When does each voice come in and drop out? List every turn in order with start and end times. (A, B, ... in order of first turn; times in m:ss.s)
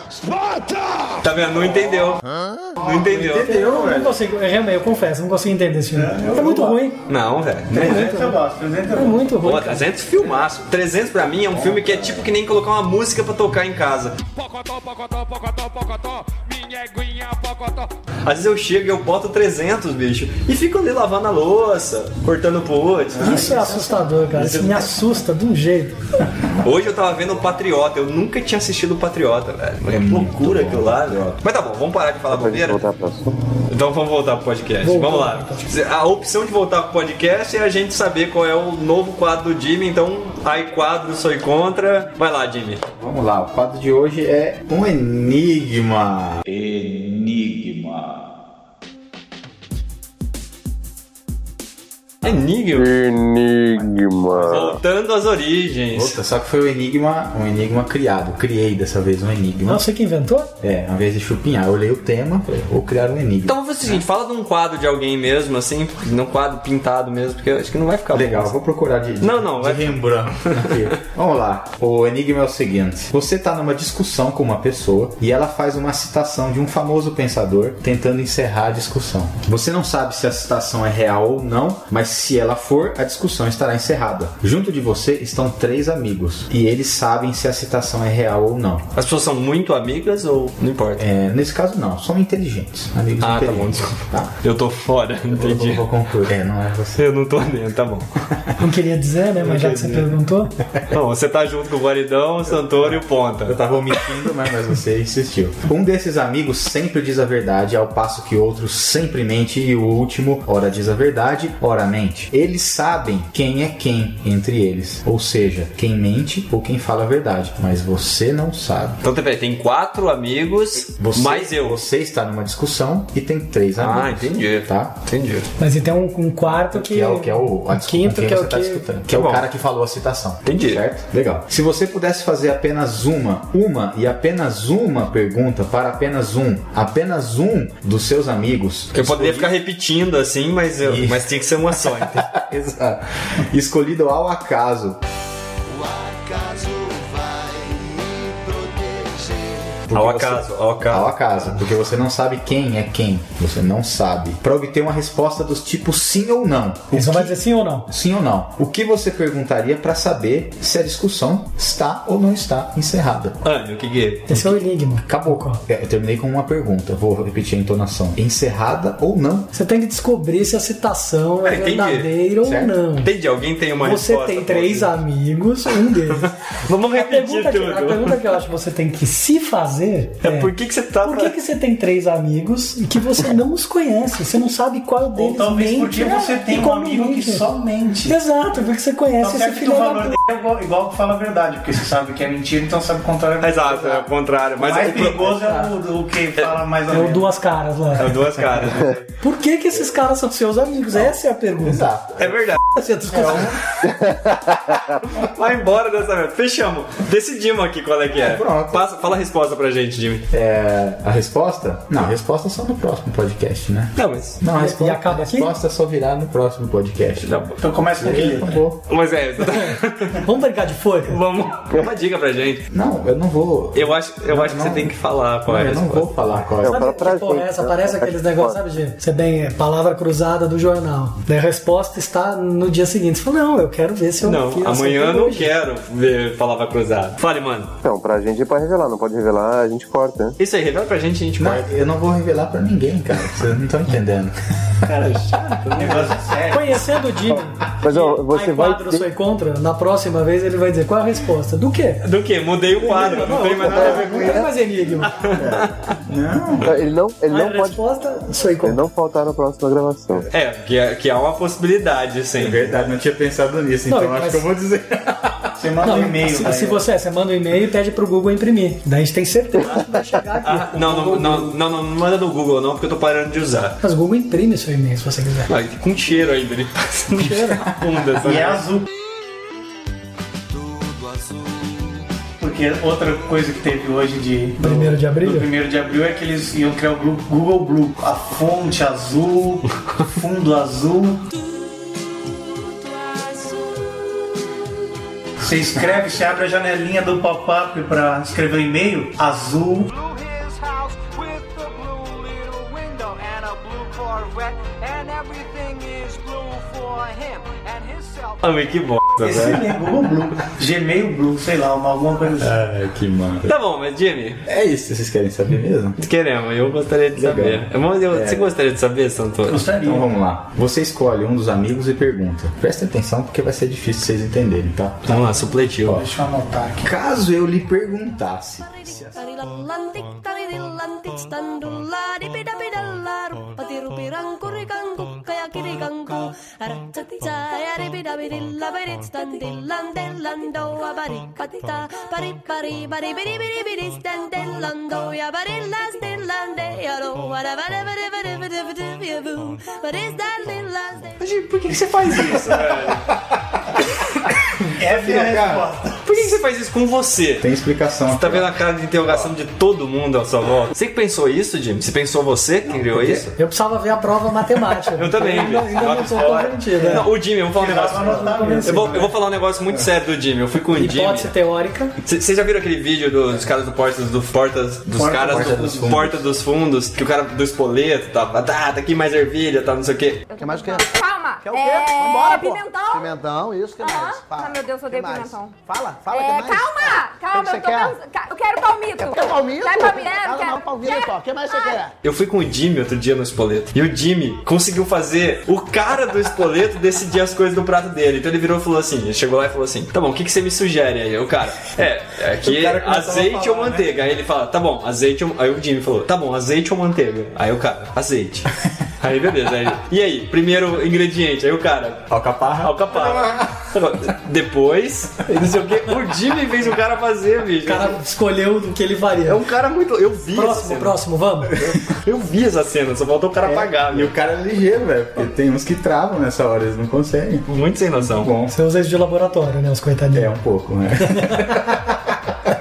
0:01.2-0:02.2 A
0:02.3-0:02.7 B
0:02.8-0:03.5 A
0:02.9-0:04.2 C
0:03.3-0:07.0 D
0:05.9-0:06.8 E
0:07.1-0:08.1 A
0:07.7-0:08.2 C
0:07.7-0:09.3 E
0:07.8-0:08.4 D
0:08.9-0:09.8 D
0:09.4-0:14.2 A
0:11.5-0:12.3 C
0:14.3-0:17.9 F
0:18.2-0:23.8 A
0:23.2-0:26.3 D
0:24.4-0:24.9 A
0:26.6-0:32.8 A
0:29.9-0:31.4 C
0:32.3-0:33.3 G
0:33.7-0:42.8 A
0:34.8-0:35.6 D
0:42.9-0:48.3 C
0:52.2-0:52.9 A
0:52.8-0:54.8 G
0:54.4-0:56.2 A
0:55.9-0:59.8 C
0:59.7-1:00.5 D
1:00.6-1:04.0 C
1:03.5-1:08.5 A
1:08.1-1:28.9 C
1:09.2-1:10.7 A
1:29.0-1:31.0 A
1:31.0-1:34.3 C
1:33.2-1:35.8 A
1:35.3-1:37.0 C
1:37.0-1:38.1 A
1:38.6-1:40.5 D
1:39.4-1:40.1 A
1:40.9-1:43.6 A
1:43.4-1:59.0 C
1:59.0-2:01.8 A
2:01.0-2:05.0 C
2:03.8-2:05.5 A
2:05.6-2:08.8 D
2:06.4-2:19.6 C
2:09.1-2:09.4 A
2:10.4-2:10.8 A
2:18.9-2:22.3 A
2:20.8-2:25.0 C
2:25.7-2:29.9 B
2:29.9-2:43.4 C
2:29.9-2:31.1 A
2:36.9-2:37.9 D
2:43.4-2:44.3 A
2:44.3-2:45.6 D
2:44.3-2:49.5 C
2:49.5-2:53.1 D
2:51.4-2:52.1 A
2:52.4-2:52.8 C
2:53.0-2:54.9 A
2:53.8-2:56.3 D
2:56.2-2:58.2 A
2:56.9-3:00.5 D
3:00.2-3:01.4 A
3:01.0-3:07.5 D
3:05.2-3:08.2 E
3:08.1-3:10.2 D
3:09.2-3:14.0 E
3:13.4-3:15.5 A
3:14.6-3:17.3 E
3:15.2-3:15.7 C
3:16.9-3:18.2 D
3:18.0-3:19.0 A
3:19.2-3:21.9 D
3:21.6-3:22.4 C
3:22.2-3:22.6 A
3:22.7-3:23.6 D
3:23.1-3:23.5 C
3:25.0-3:30.3 A
3:28.1-3:28.8 C
3:30.3-3:38.8 C
3:34.0-3:34.4 A
3:34.6-3:35.5 D
3:37.2-3:37.6 A
3:37.6-3:38.6 E
3:38.9-3:40.2 A
3:39.6-3:41.2 D
3:41.1-3:42.6 A
3:42.7-3:46.9 C
3:43.7-3:46.1 A
3:46.6-3:48.6 G
3:46.6-3:55.5 D
3:54.2-3:57.8 A
3:57.8-4:00.4 G
4:00.4-4:01.8 A
4:01.4-4:04.4 C
4:04.9-4:06.2 A
4:05.7-4:06.8 E
4:06.5-4:12.0 D
4:07.8-4:09.0 G
4:12.0-4:14.5 A
4:12.8-4:15.2 D
4:13.6-4:14.5 G
4:15.1-4:15.9 A
4:15.3-4:16.8 C
4:16.6-4:17.8 G
4:17.3-4:18.8 D
4:18.6-4:20.3 G
4:20.3-4:22.8 A
4:22.4-4:25.5 C
4:23.9-4:24.5 D
4:25.6-4:26.8 E
4:25.8-4:31.6 D
4:30.4-4:33.8 A
4:33.8-4:35.5 D
4:35.5-4:38.6 A
4:37.1-4:37.6 D
4:38.2-4:38.9 E
4:40.6-4:42.0 B
4:42.4-4:51.3 E
4:44.6-4:45.5 D
4:51.3-4:54.5 F
4:55.4-4:59.9 E
4:55.9-4:56.2 F
4:59.8-5:09.4 F
5:08.4-5:09.7 A
5:09.2-5:12.6 E
5:12.4-5:13.5 C
5:13.4-5:14.4 A
5:14.5-5:16.0 C
5:16.0-5:19.6 A
5:17.2-5:18.5 C
5:19.5-5:20.1 E
5:19.8-5:25.4 C
5:25.1-5:26.0 A
5:25.9-5:26.9 E
5:26.8-5:29.1 C
5:28.8-5:51.2 H
5:51.2-5:53.1 A
5:54.8-5:56.0 E
5:55.0-5:55.6 C
5:56.0-5:57.5 A
5:57.4-5:59.4 C
5:58.1-6:03.3 A
6:02.7-6:03.3 C
6:03.4-6:07.1 D
6:04.9-6:11.3 A
6:06.9-6:09.2 E
6:07.9-6:09.1 D
6:10.7-6:11.9 D
6:12.0-6:20.2 A
6:15.0-6:16.0 E
6:15.2-6:16.2 C
6:20.3-6:23.2 I
6:20.4-6:28.0 B
6:23.8-6:25.6 I
6:26.1-6:31.8 I
6:29.0-6:31.9 B
6:32.0-6:58.0 A
6:42.4-6:43.9 C
6:52.1-6:53.6 C
6:57.6-6:59.4 D
6:59.3-7:01.0 A
7:00.3-7:01.6 D
7:01.9-7:04.1 A
7:03.4-7:08.5 C
7:07.5-7:08.3 A
7:08.5-7:10.3 D
7:10.1-7:12.3 C